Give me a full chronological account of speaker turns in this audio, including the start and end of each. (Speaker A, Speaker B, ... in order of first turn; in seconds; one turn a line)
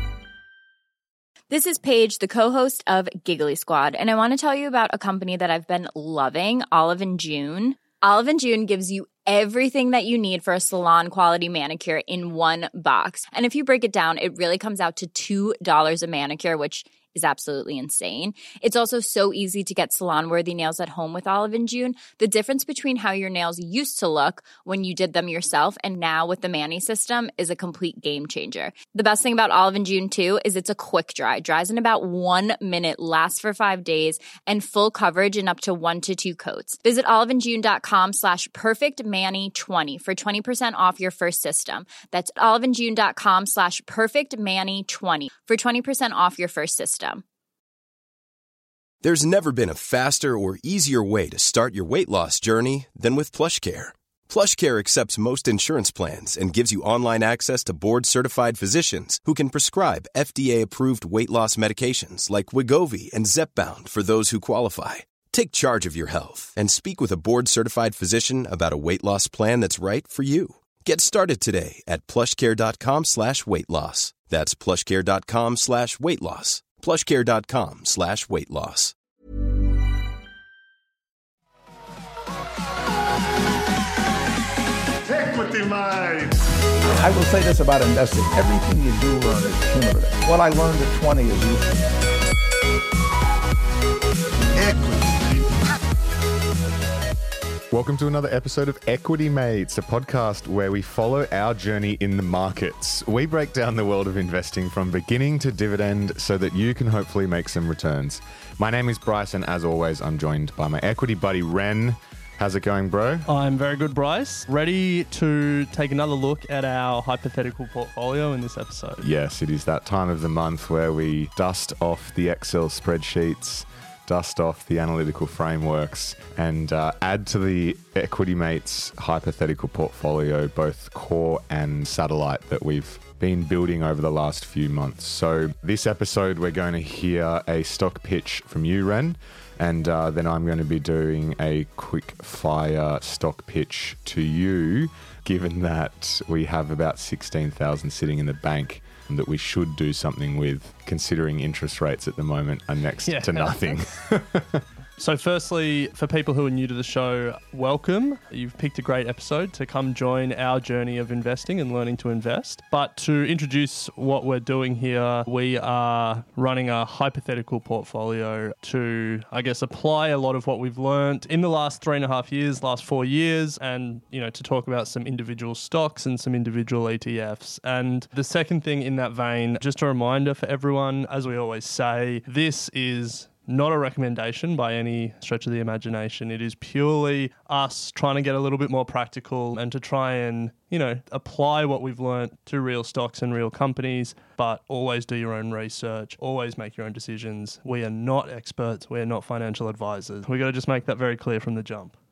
Speaker A: 1.5-47.2
Speaker B: 49.0-78.9
Speaker C: 85.0-86.4
Speaker D: 87.0-91.7
Speaker C: 94.5-95.5
Speaker E: 97.7-113.3
Speaker F: 113.3-119.0
Speaker E: 119.0-154.6
Speaker F: 153.0-153.6
Speaker F: 155.0-201.9